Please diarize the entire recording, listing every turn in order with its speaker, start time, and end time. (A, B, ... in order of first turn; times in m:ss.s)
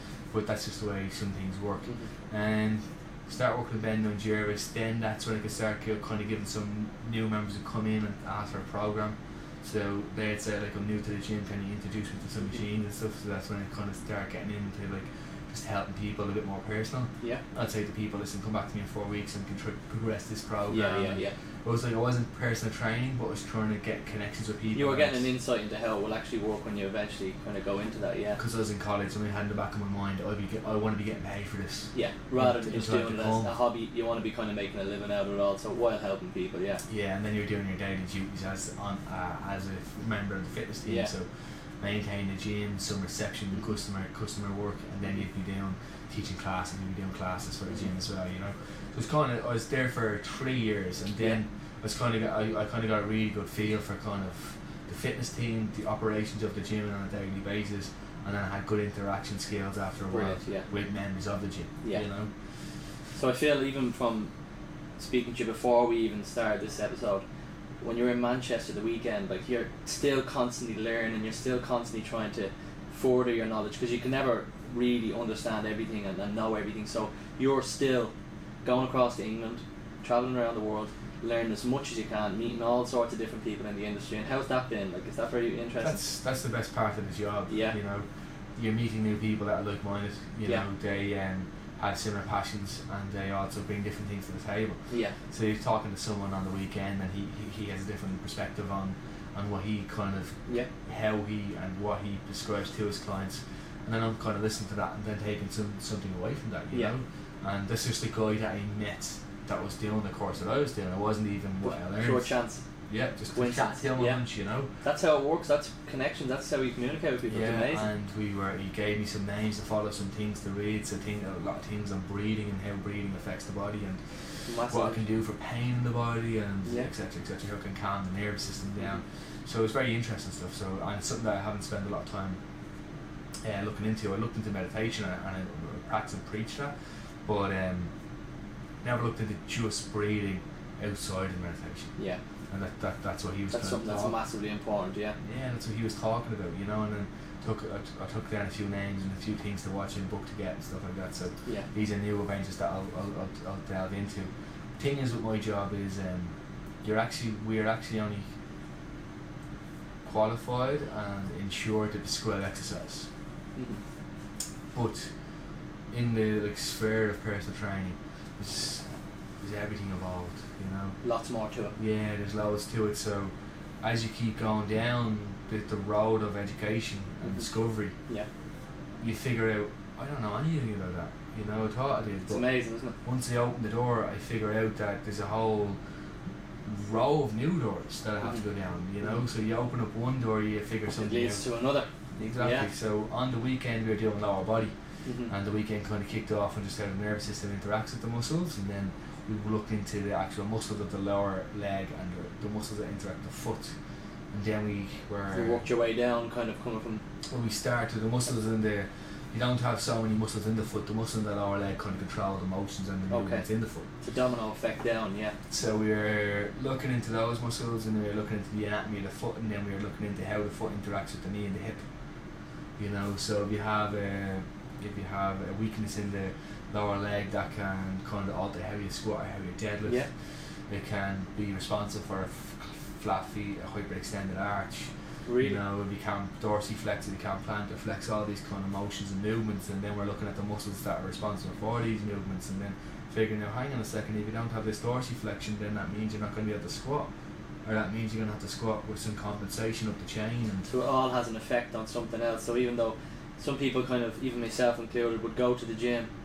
0:00.3-0:25.3 A
0:20.7-0:21.3 B
0:24.7-0:28.4 B
0:28.4-0:33.5 A
0:31.9-0:36.8 B
0:36.9-0:41.3 A
0:41.8-1:02.3 A
1:00.1-1:00.7 B
1:03.1-1:04.3 B
1:05.0-1:07.2 B
1:07.8-1:18.1 B
1:18.6-1:26.0 B
1:25.8-1:34.8 A
1:27.5-1:27.8 B
1:34.9-1:35.2 B
1:35.3-1:52.3 A
1:51.6-1:52.6 B
1:52.9-1:54.7 A
1:53.3-1:54.2 B
1:54.8-1:57.9 B
1:57.3-2:04.0 A
2:04.5-2:05.0 B
2:04.7-2:12.4 A
2:13.4-2:16.7 A
2:17.2-2:17.9 A
2:18.8-2:21.9 A
2:22.5-2:24.2 A
2:23.5-2:25.2 B
2:25.2-2:38.2 A
2:40.0-2:43.1 A
2:43.6-2:43.8 B
2:44.7-2:45.1 A
2:45.9-2:48.8 A
2:49.4-2:51.0 A
2:51.0-2:51.7 B
2:51.8-2:57.9 A
2:59.0-3:02.4 A
3:02.3-3:03.0 B
3:03.0-3:05.8 A
3:06.6-3:11.4 A
3:11.0-3:12.7 B
3:12.2-3:14.7 A
3:15.0-3:15.3 B
3:15.3-3:23.7 A
3:24.3-3:25.6 A
3:25.3-3:27.0 B
3:27.3-3:33.9 A
3:33.1-3:33.4 B
3:34.0-3:35.4 B
3:35.5-3:41.8 A
3:42.8-3:50.1 A
3:50.7-4:07.1 A
3:55.2-3:55.6 B
4:07.6-4:10.7 A
4:10.7-4:16.1 B